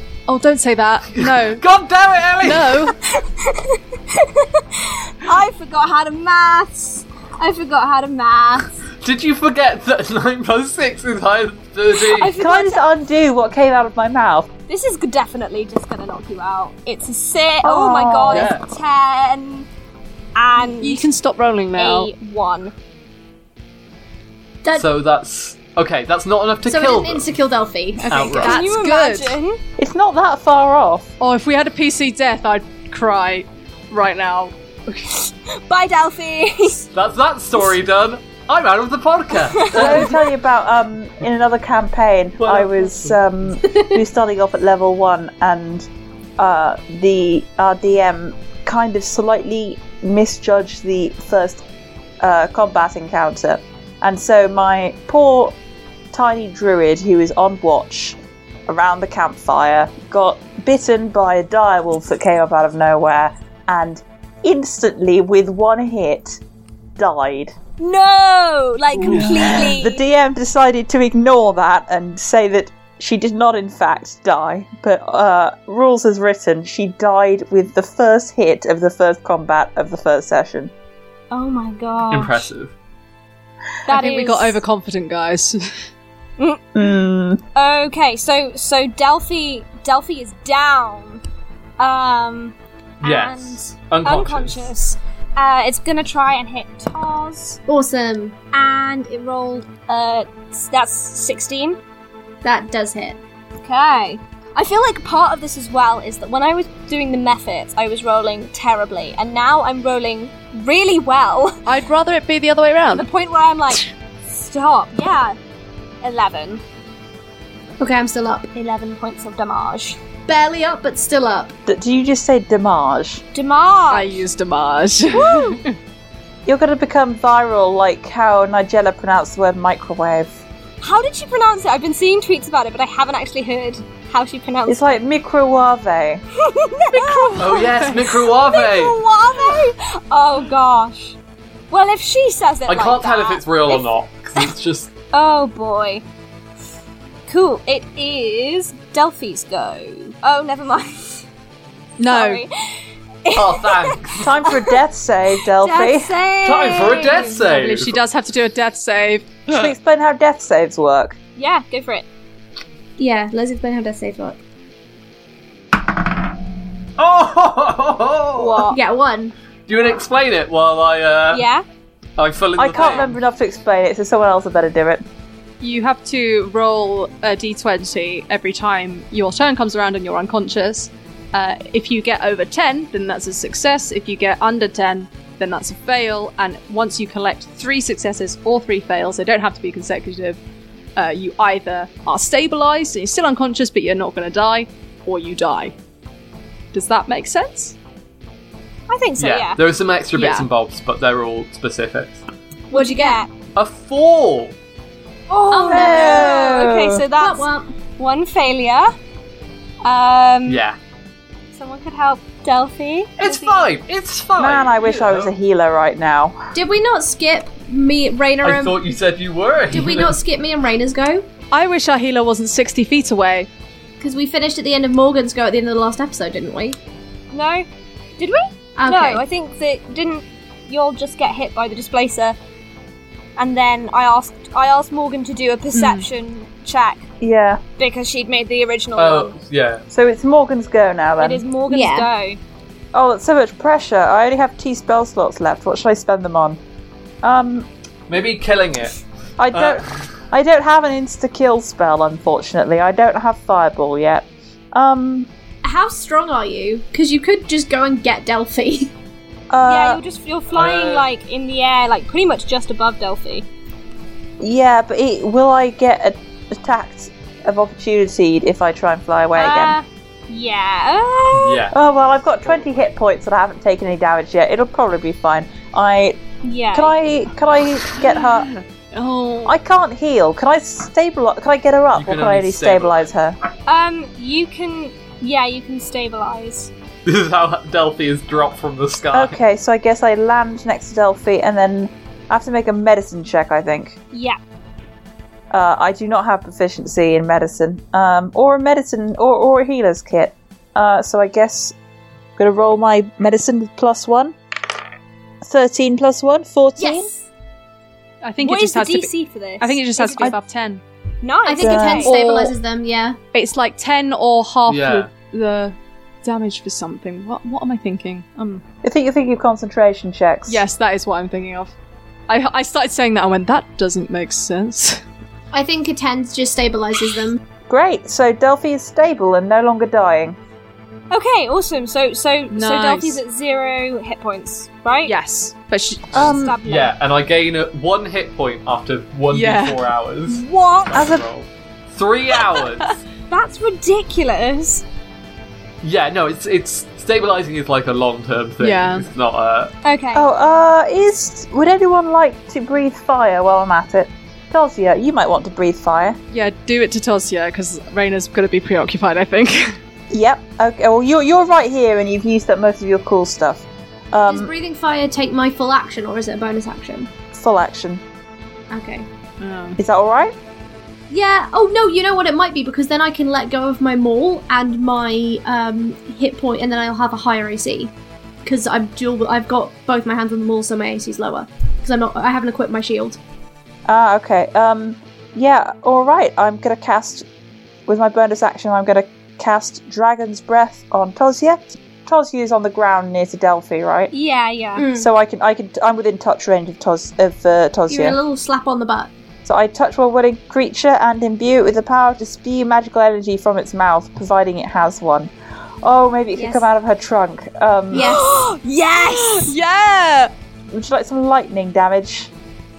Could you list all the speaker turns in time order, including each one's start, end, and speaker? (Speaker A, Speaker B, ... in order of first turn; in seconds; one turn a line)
Speaker A: 0.3-1.6
Speaker B: 1.1-2.9
Speaker A: 2.4-3.0
Speaker C: 2.9-8.8
Speaker B: 9.0-12.3
Speaker C: 12.0-12.8
Speaker D: 12.3-14.5
Speaker C: 14.7-19.7
Speaker D: 17.6-18.5
Speaker B: 18.3-18.6
Speaker C: 20.3-21.1
Speaker A: 20.6-22.1
Speaker C: 21.7-22.7
Speaker B: 24.7-27.3
Speaker E: 26.7-28.6
Speaker B: 28.1-28.6
Speaker A: 28.1-29.4
Speaker C: 28.4-29.6
Speaker D: 29.8-31.1
Speaker A: 31.2-35.1
Speaker C: 35.1-36.9
Speaker B: 36.9-40.2
Speaker C: 39.5-40.0
Speaker D: 39.7-51.6
Speaker B: 42.4-43.2
Speaker D: 52.2-55.5
Speaker D: 56.1-66.4
Speaker D: 67.0-67.5
Speaker C: 67.8-70.0
Speaker D: 69.1-80.7
Speaker C: 81.3-82.5
Speaker B: 82.1-82.7
Speaker C: 83.9-84.6
Speaker A: 83.9-85.7
Speaker C: 86.4-86.6
Speaker D: 86.7-87.4
Speaker C: 87.5-91.2
Speaker C: 91.8-97.6
Speaker B: 93.0-94.7
Speaker E: 97.7-98.3
Speaker C: 98.5-101.8
Speaker E: 102.4-103.2
Speaker C: 103.6-111.6
Speaker A: 111.6-113.0
Speaker C: 112.9-115.3
Speaker C: 116.0-116.6
Speaker E: 117.8-118.5
Speaker C: 118.5-120.0
Speaker E: 120.3-121.5
Speaker D: 121.7-123.2
Speaker C: 123.3-124.2
Speaker A: 123.9-125.7
Speaker C: 125.1-125.6
Speaker D: 126.5-130.4
Speaker C: 130.8-135.0
Speaker D: 134.7-136.2
Speaker C: 136.4-141.2
Speaker A: 136.9-137.9
Speaker B: 137.4-139.0
Speaker C: 141.7-143.8
Speaker B: 142.7-144.9
Speaker C: 145.1-146.0
Speaker C: 147.3-151.2
Speaker A: 152.0-152.4
Speaker C: 152.1-154.7
Speaker B: 153.3-154.3
Speaker D: 154.2-156.1
Speaker C: 155.6-157.4
Speaker B: 156.4-158.0
Speaker A: 157.4-159.4
Speaker D: 159.5-161.2
Speaker C: 161.3-162.1
Speaker E: 163.0-164.4
Speaker B: 167.0-168.7
Speaker C: 168.3-168.8
Speaker E: 168.7-169.3
Speaker B: 169.7-171.4
Speaker C: 171.3-171.6
Speaker B: 172.2-173.1
Speaker D: 172.6-175.0
Speaker C: 172.8-173.0
Speaker A: 175.6-190.4
Speaker A: 190.9-195.7
Speaker A: 196.7-197.8
Speaker C: 198.9-199.6
Speaker B: 199.2-202.2
Speaker A: 200.1-200.5
Speaker E: 202.7-203.2
Speaker C: 202.7-203.3
Speaker B: 203.5-204.5
Speaker C: 205.3-208.9
Speaker E: 205.5-206.5
Speaker D: 205.7-207.0
Speaker E: 207.2-207.7
Speaker C: 209.8-210.6
Speaker B: 210.5-210.8
Speaker C: 211.5-213.7
Speaker B: 213.2-215.3
Speaker D: 214.4-216.4
Speaker E: 216.5-218.8
Speaker B: 218.4-220.2
Speaker E: 219.7-221.2
Speaker A: 221.5-223.5
Speaker E: 224.0-226.8
Speaker C: 227.3-227.7
Speaker C: 228.2-232.3
Speaker E: 228.8-229.2
Speaker C: 233.4-237.1
Speaker A: 235.7-236.0
Speaker D: 237.2-237.6
Speaker C: 237.8-239.3
Speaker B: 239.0-239.8
Speaker D: 239.9-241.4
Speaker C: 241.2-242.4
Speaker E: 241.7-242.1
Speaker D: 242.9-246.6
Speaker D: 247.2-247.7
Speaker B: 248.1-249.0
Speaker D: 249.4-255.3
Speaker B: 249.5-250.1
Speaker E: 255.6-258.9
Speaker D: 259.5-260.0
Speaker C: 259.6-263.4
Speaker B: 260.5-261.1
Speaker D: 264.4-269.7
Speaker C: 269.4-271.6
Speaker B: 271.3-271.8
Speaker D: 271.7-276.2
Speaker C: 276.4-277.0
Speaker D: 276.7-278.5
Speaker A: 278.0-279.6
Speaker D: 279.4-283.4
Speaker B: 281.9-283.0
Speaker C: 283.6-286.7
Speaker B: 287.0-289.4
Speaker D: 289.1-294.0
Speaker C: 294.1-294.4
Speaker D: 295.5-301.7
Speaker D: 302.4-304.3
Speaker D: 305.4-307.1
Speaker E: 306.8-307.2
Speaker A: 308.2-310.8
Speaker C: 308.4-310.3
Speaker C: 311.2-312.2
Speaker E: 311.4-313.2
Speaker D: 311.6-312.2
Speaker A: 312.0-312.5
Speaker A: 313.3-318.6
Speaker B: 314.7-315.1
Speaker D: 318.8-320.6
Speaker A: 320.5-321.7
Speaker A: 322.3-325.0
Speaker E: 325.5-327.4
Speaker D: 327.7-330.4
Speaker C: 331.1-335.1
Speaker A: 332.5-333.2
Speaker A: 335.1-336.3
Speaker D: 336.1-336.5
Speaker C: 336.2-336.9
Speaker B: 336.6-343.0
Speaker A: 339.3-339.9
Speaker C: 340.3-341.0
Speaker D: 340.9-341.2
Speaker C: 343.3-344.8
Speaker B: 345.8-349.7
Speaker A: 348.6-349.1
Speaker C: 349.8-350.2
Speaker D: 350.1-356.2
Speaker A: 356.3-359.8
Speaker D: 360.1-364.5
Speaker E: 364.3-367.1
Speaker D: 367.3-368.0
Speaker E: 368.7-369.1
Speaker A: 369.4-369.8
Speaker D: 369.8-370.3
Speaker E: 371.1-377.9
Speaker E: 378.4-383.2
Speaker D: 383.9-387.2
Speaker D: 387.9-394.1
Speaker C: 394.1-394.9
Speaker E: 394.8-395.1
Speaker D: 394.9-398.2
Speaker E: 397.9-399.1
Speaker D: 399.4-405.3
Speaker D: 405.8-408.1
Speaker E: 406.4-406.6
Speaker E: 407.9-408.3
Speaker C: 407.9-409.5
Speaker A: 409.0-410.3
Speaker D: 410.7-412.3